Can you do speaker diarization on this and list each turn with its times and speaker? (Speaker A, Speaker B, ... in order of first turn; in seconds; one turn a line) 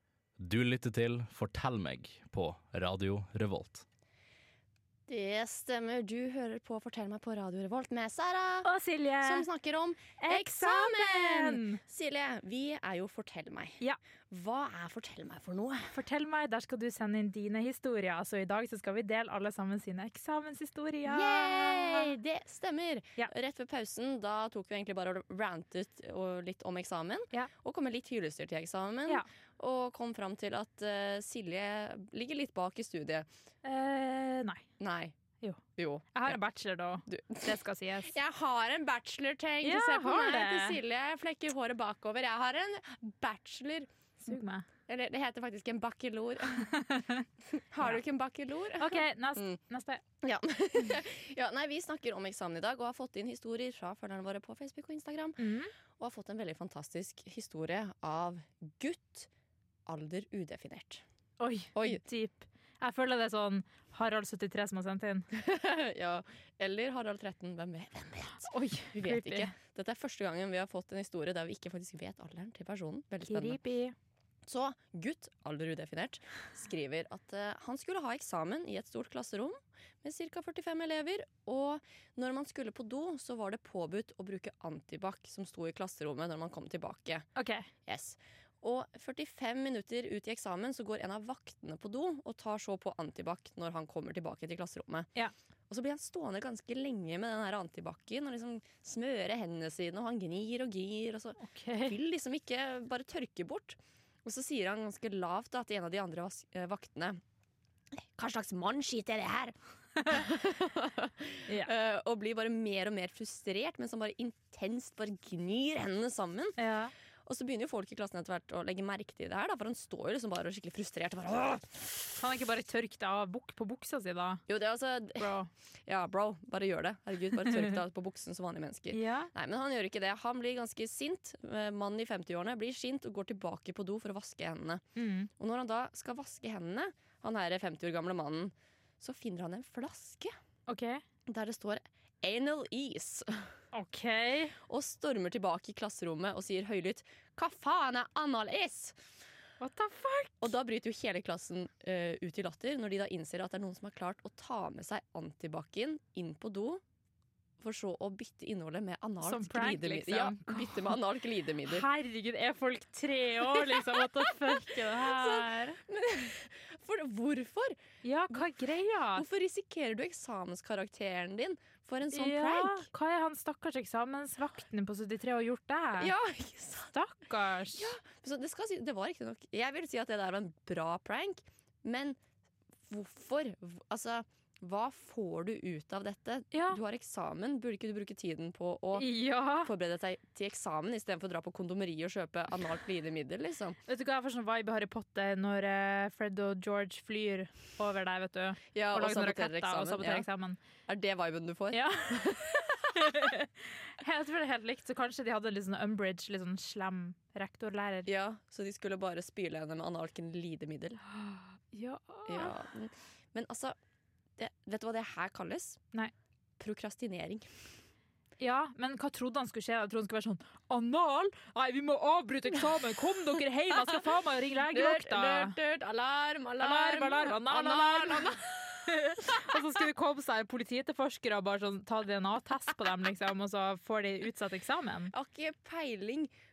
Speaker A: 0.4-3.8
Speaker B: 5.1-8.7
Speaker C: 8.6-9.5
Speaker B: 9.2-15.9
Speaker C: 10.2-11.8
Speaker C: 15.9-22.1
Speaker B: 21.1-33.3
Speaker C: 33.6-34.6
Speaker B: 34.8-35.1
Speaker B: 35.8-36.4
Speaker C: 36.1-38.1
Speaker B: 37.1-43.9
Speaker C: 39.6-40.8
Speaker C: 44.2-44.7
Speaker B: 44.9-46.7
Speaker C: 46.5-47.2
Speaker B: 47.5-49.6
Speaker C: 48.8-50.0
Speaker B: 50.2-55.5
Speaker C: 55.4-55.7
Speaker B: 56.0-59.3
Speaker B: 59.9-61.0
Speaker C: 61.4-65.3
Speaker B: 61.7-62.0
Speaker B: 65.3-73.6
Speaker C: 68.4-69.5
Speaker C: 73.3-74.0
Speaker B: 74.5-87.3
Speaker C: 87.4-87.7
Speaker B: 87.9-95.1
Speaker B: 95.7-107.2
Speaker C: 101.4-102.0
Speaker B: 108.2-109.5
Speaker B: 110.1-116.6
Speaker C: 116.6-116.9
Speaker B: 117.3-122.1
Speaker C: 122.2-124.4
Speaker B: 124.5-125.3
Speaker C: 125.2-125.5
Speaker B: 125.9-134.8
Speaker C: 127.4-127.8
Speaker C: 128.9-129.3
Speaker C: 135.0-135.3
Speaker B: 135.4-140.3
Speaker C: 140.7-141.0
Speaker B: 141.3-143.5
Speaker C: 143.7-144.6
Speaker B: 144.7-149.0
Speaker C: 149.6-150.5
Speaker B: 150.4-156.8
Speaker B: 157.6-161.9
Speaker C: 159.2-161.0
Speaker C: 161.7-165.8
Speaker B: 163.7-167.8
Speaker C: 168.0-169.3
Speaker B: 169.1-172.9
Speaker C: 172.1-176.1
Speaker B: 176.0-176.9
Speaker C: 176.9-177.9
Speaker B: 177.7-182.2
Speaker B: 182.9-189.1
Speaker C: 186.5-186.8
Speaker C: 188.9-189.7
Speaker B: 189.6-193.8
Speaker C: 193.9-200.6
Speaker B: 198.7-200.3
Speaker B: 200.9-203.2
Speaker C: 201.7-208.1
Speaker B: 208.1-211.0
Speaker C: 211.1-212.6
Speaker B: 212.3-213.8
Speaker B: 214.4-215.8
Speaker B: 216.6-217.5
Speaker C: 218.4-225.6
Speaker B: 224.7-229.5
Speaker C: 226.6-235.1
Speaker B: 235.1-236.3